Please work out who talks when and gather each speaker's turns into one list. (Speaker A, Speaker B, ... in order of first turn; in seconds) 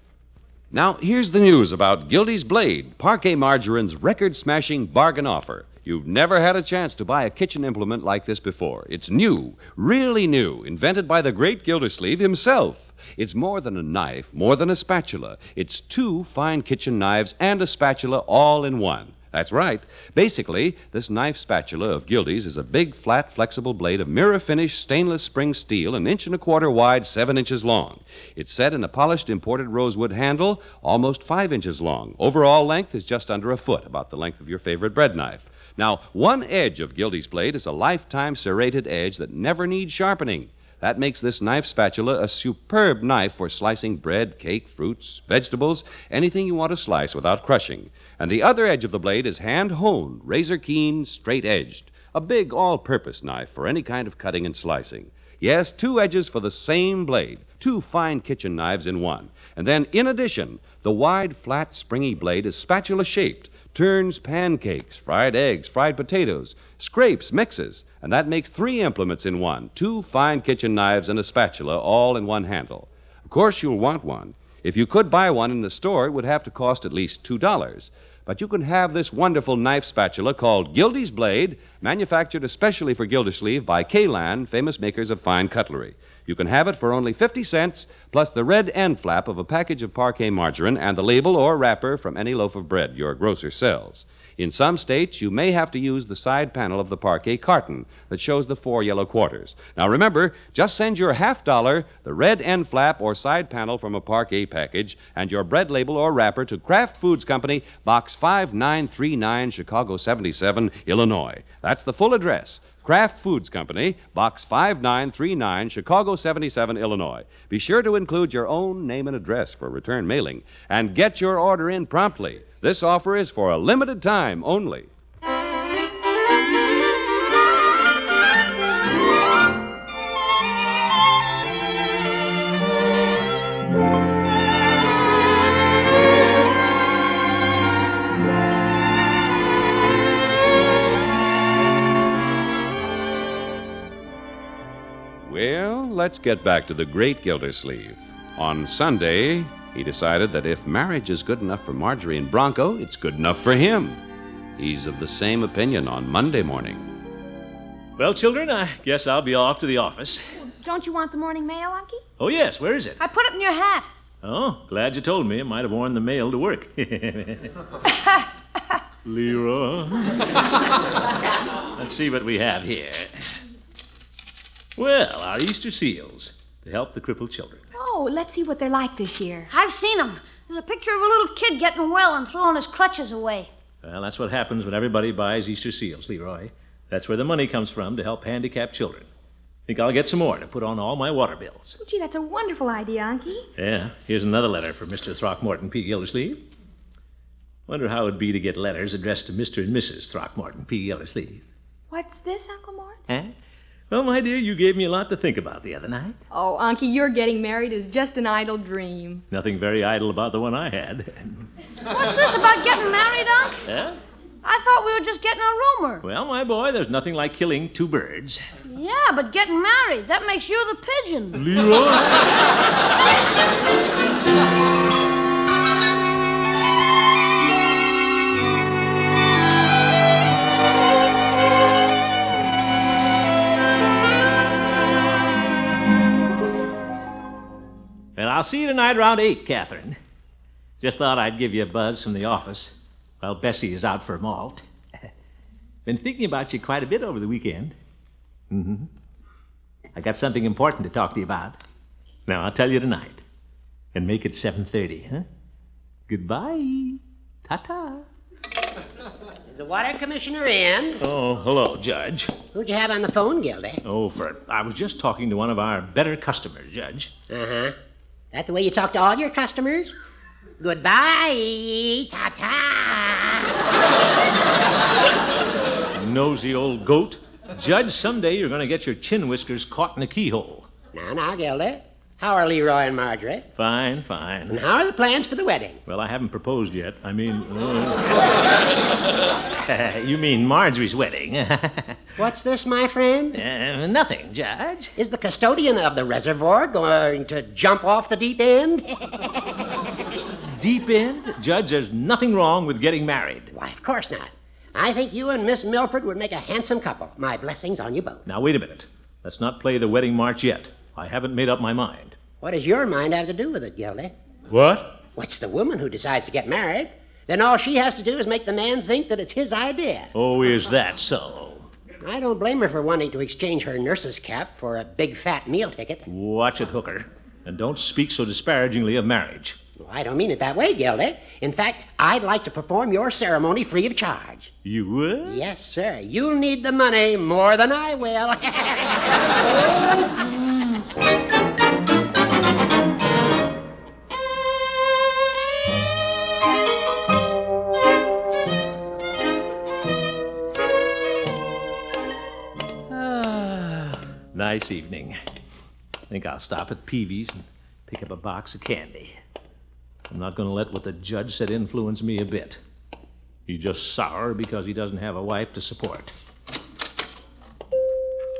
Speaker A: 0.7-124.9, 145.2-154.0, 154.6-156.9
Speaker B: 158.0-160.2, 162.2-163.0, 164.2-167.6, 169.0-170.4, 171.7-173.4, 174.8-177.7, 183.8-189.1, 189.7-191.8, 193.6-196.5, 197.7-201.5, 203.1-203.3, 203.9-206.2, 209.3-211.5, 213.7-214.0, 216.0-218.4, 221.3-222.4, 238.2-240.0, 240.8-244.7, 245.8-247.8, 248.5-248.9, 249.9-251.6, 252.3-253.2, 253.9-255.3, 256.1-258.1, 261.0-262.4, 263.8-267.1, 275.9-280.7, 283.6-284.6, 285.9-288.4, 289.5-292.1, 293.3-294.9, 300.4-303.5, 308.3-312.2, 314.5-315.0, 320.1-321.7, 326.1-329.6, 334.6-335.5, 352.9-355.2, 356.1-359.2, 360.1-362.6, 363.5-366.1
Speaker C: 160.4-162.0, 177.7-179.5, 191.8-193.5, 201.9-203.0, 206.3-209.2
Speaker D: 163.0-163.9, 179.5-183.5, 211.9-213.6, 214.4-216.0, 218.7-221.4
Speaker E: 259.5-261.0, 262.5-263.8, 267.3-267.8, 268.3-269.9, 270.6-273.5, 280.9-283.5, 284.5-285.8, 292.2-293.4, 295.0-299.3, 303.5-308.2, 312.4-314.1, 315.1-320.1, 322.0-326.1, 329.8-334.5, 335.2-339.2